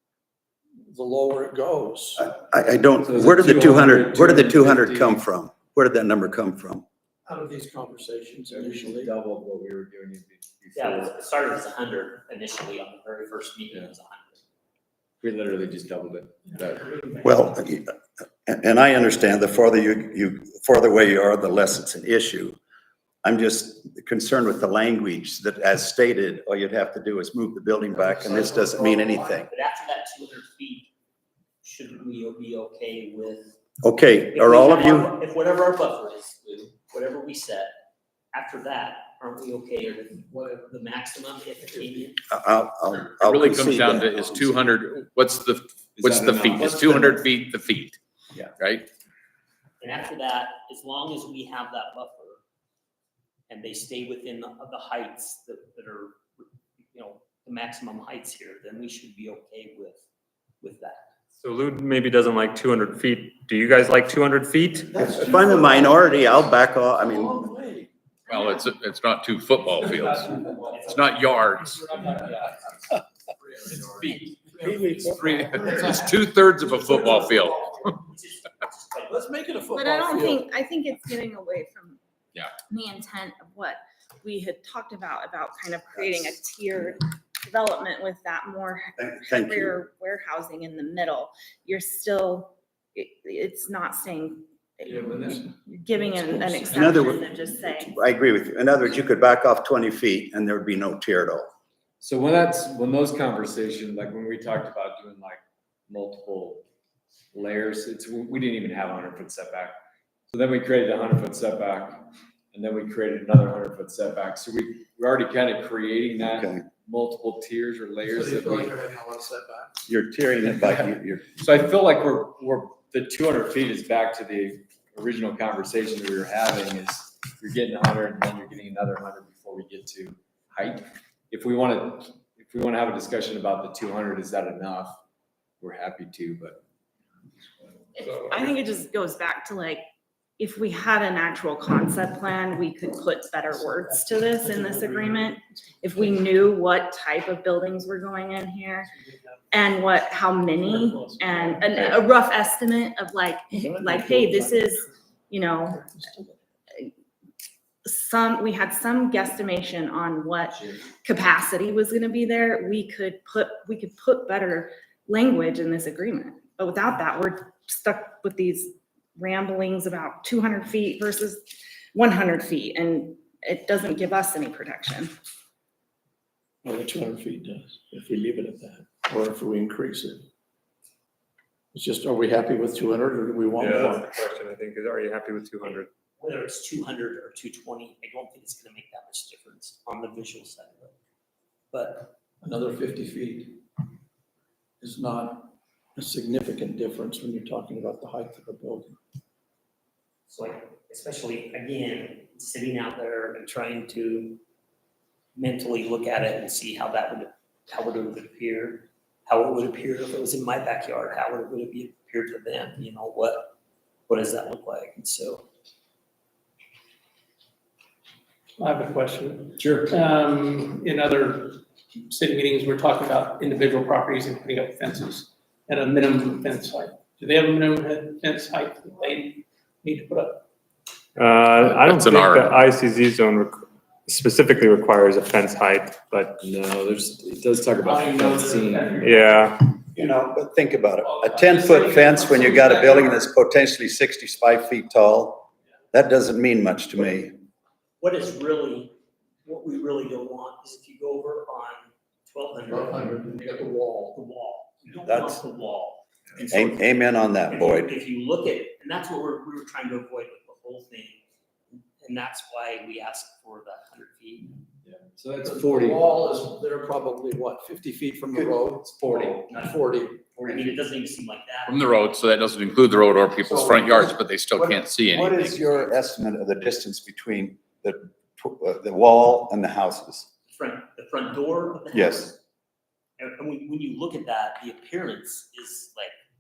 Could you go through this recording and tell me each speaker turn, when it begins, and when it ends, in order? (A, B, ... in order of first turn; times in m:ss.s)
0:00.8-0:02.3 A
0:02.2-0:06.8 B
0:03.0-0:05.2 C
0:07.3-0:09.1 A
0:08.5-0:11.2 C
0:10.7-0:14.4 D
0:15.2-0:16.9 C
0:16.5-0:17.2 E
0:17.2-0:22.6 B
0:23.2-0:29.5 B
0:27.9-0:29.5 A
0:29.5-0:30.9 D
0:31.6-0:33.6 D
0:33.8-0:35.1 B
0:34.3-0:37.7 D
0:38.3-0:42.2 D
0:40.3-0:40.7 A
0:41.7-0:42.1 A
0:42.3-0:44.5 B
0:42.9-0:48.9 F
0:46.0-0:46.8 C
0:46.5-0:47.2 A
0:49.8-0:52.4 D
0:53.5-0:56.2 D
0:56.9-1:00.0 D
1:00.6-1:01.1 D
1:01.4-1:05.0 G
1:05.0-1:07.4 B
1:05.0-1:07.9 A
1:08.3-1:12.2 F
1:12.0-1:12.5 A
1:13.4-1:17.8 A
1:14.0-1:17.9 F
1:14.0-1:14.3 D
1:17.5-1:19.4 D
1:19.1-1:20.4 A
1:19.7-1:22.0 H
1:22.6-1:37.9 H
1:29.0-1:29.8 B
1:34.9-1:37.7 A
1:36.7-1:37.2 B
1:37.9-1:41.5 B
1:42.0-1:46.6 C
1:47.3-1:49.8 C
1:50.3-1:58.8 C
1:56.2-1:56.6 B
1:58.1-1:59.8 A
1:59.9-2:01.3 B
2:01.4-2:15.0 C
2:15.6-2:16.6 C
2:18.0-2:19.8 H
2:20.4-2:28.9 H
2:24.5-2:25.4 E
2:29.5-2:35.9 H
2:30.6-2:31.6 E
2:33.7-2:34.6 A
2:37.8-2:55.1 H
2:56.6-3:00.2 A
3:01.7-3:04.1 A
3:03.6-3:05.9 G
3:06.2-3:11.0 D
3:11.7-3:12.1 D
3:12.4-3:13.6 A
3:14.8-3:19.0 A
3:20.3-3:24.4 D
3:25.4-3:33.5 D
3:34.1-3:35.5 D
3:38.6-3:50.4 E
3:39.6-3:39.9 C
3:51.2-3:56.4 G
3:51.8-3:52.5 F
3:56.4-3:59.2 C
3:57.8-3:59.5 E
3:59.0-3:59.7 G
3:59.9-4:07.4 B
4:01.0-4:03.2 E
4:08.0-4:08.9 D
4:09.4-4:13.1 D
4:12.7-4:14.2 A
4:14.1-4:21.2 D
4:15.1-4:15.4 B
4:16.5-4:17.9 B
4:21.7-4:24.6 D
4:24.8-4:26.1 C
4:25.4-4:29.0 A
4:28.8-4:29.4 C
4:29.5-4:29.8 D
4:29.5-4:30.3 A
4:30.4-4:31.8 D
4:31.7-4:35.7 F
4:33.4-4:40.3 B
4:40.5-4:42.4 D
4:41.9-4:42.3 B
4:43.2-4:46.2 D